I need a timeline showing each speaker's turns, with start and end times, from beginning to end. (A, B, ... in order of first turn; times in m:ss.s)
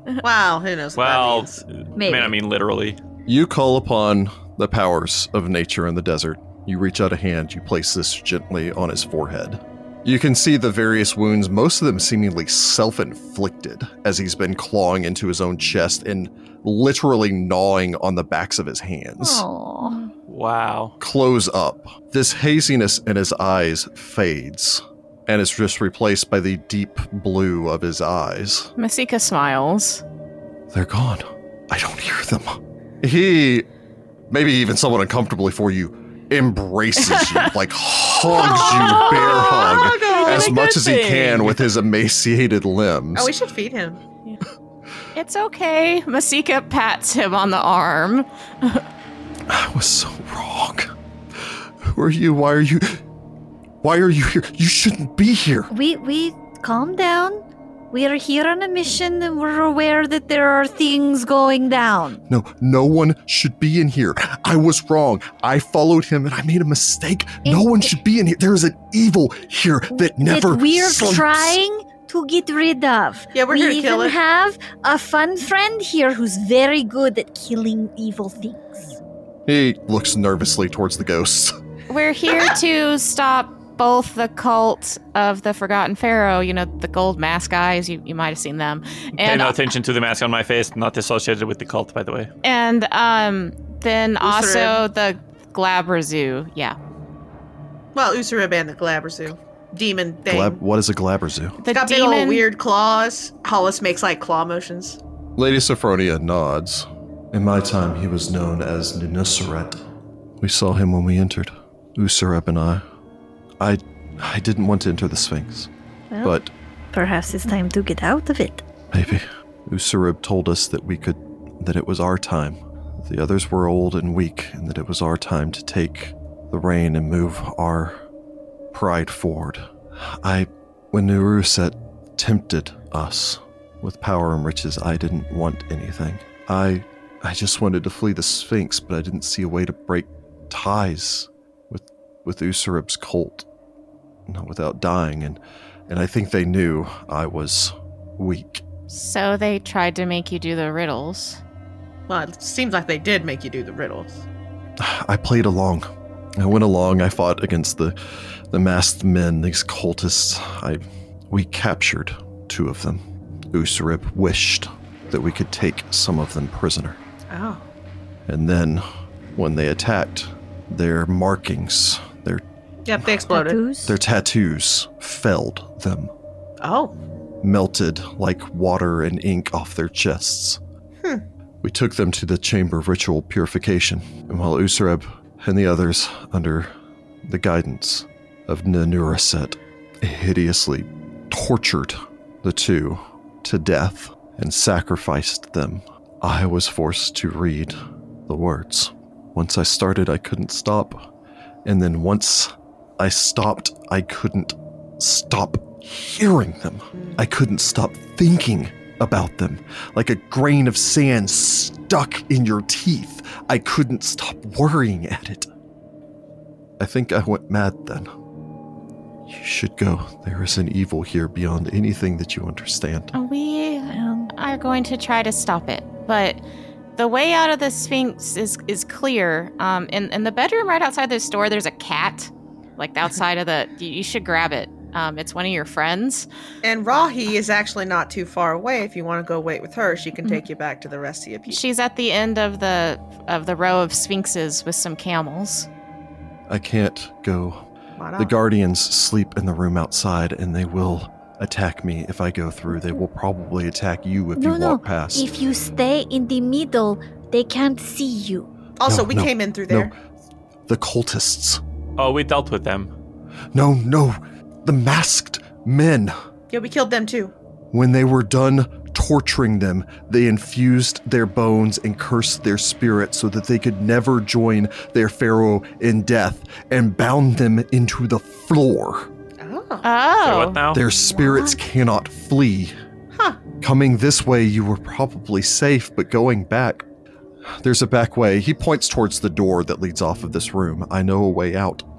0:00.2-0:01.6 A
0:01.0-0:03.0 B
0:02.0-0:02.3 C
0:03.2-0:19.4 D
0:19.2-0:20.0 C
0:19.8-0:20.1 E
0:20.3-0:20.9 B
0:21.0-0:28.7 D
0:28.8-0:30.0 E
0:30.7-0:33.6 D
0:34.3-0:43.3 D
0:37.1-0:37.5 E
0:38.3-0:41.0 E
0:38.6-0:40.6 A
0:40.3-0:41.6 B
0:43.1-0:44.0 A
0:45.1-0:48.8 E
0:49.5-0:53.0 D
0:53.8-0:55.7 D
0:55.7-1:02.2 C
1:02.3-1:11.6 D
1:07.4-1:07.9 C
1:09.9-1:19.0 C
1:13.3-1:14.2 A
1:19.5-1:21.5 D
1:21.9-1:29.6 E
1:29.2-1:32.3 B
1:32.4-1:36.8 E
1:34.2-1:34.8 A
1:37.9-1:40.6 A
1:40.2-1:41.6 D
1:41.6-1:42.4 E
1:41.7-1:45.0 A
1:45.4-1:49.8 D
1:50.4-1:52.8 D
1:53.6-1:55.7 D
1:56.1-1:56.4 C
1:56.2-1:56.5 D
1:56.9-1:58.6 C
1:58.9-2:08.0 D
2:08.7-2:23.4 D
2:24.3-2:28.6 D
2:28.9-2:31.4 E
2:32.1-2:34.2 A
2:34.8-2:35.9 D
2:36.4-2:38.0 D
2:38.5-2:47.0 D
2:47.3-2:47.6 A
2:48.3-2:48.8 D
2:49.4-2:52.4 D
2:52.8-2:53.6 A
2:53.3-2:54.0 C
2:53.8-2:56.1 D
2:56.6-2:56.9 A
2:57.4-3:00.6 D
3:01.6-3:06.7 D
3:07.2-3:17.8 D
3:18.3-3:21.1 D
3:21.6-3:35.5 D
3:36.8-3:38.1 D
3:39.3-3:43.1 D
3:43.1-3:46.4 E
3:43.8-3:44.3 C
3:47.0-3:56.3 E
3:56.6-4:01.6 A
4:01.5-4:05.7 E
4:06.5-4:07.6 D
4:08.0-4:08.3 A
4:08.2-4:15.3 D
4:14.4-4:18.5 C
4:18.8-4:19.9 A
4:18.8-4:19.9 D
4:20.7-4:21.6 D
4:22.0-4:22.9 B
4:23.5-4:26.1 D
4:26.5-4:27.3 A
4:27.7-4:39.1 D
4:39.4-4:39.8 A
4:39.8-4:40.6 E
4:40.2-4:40.8 B
4:40.7-4:42.7 D
4:41.1-4:41.5 C
4:43.2-4:43.4 A
4:43.6-4:46.8 D
4:47.6-4:51.8 D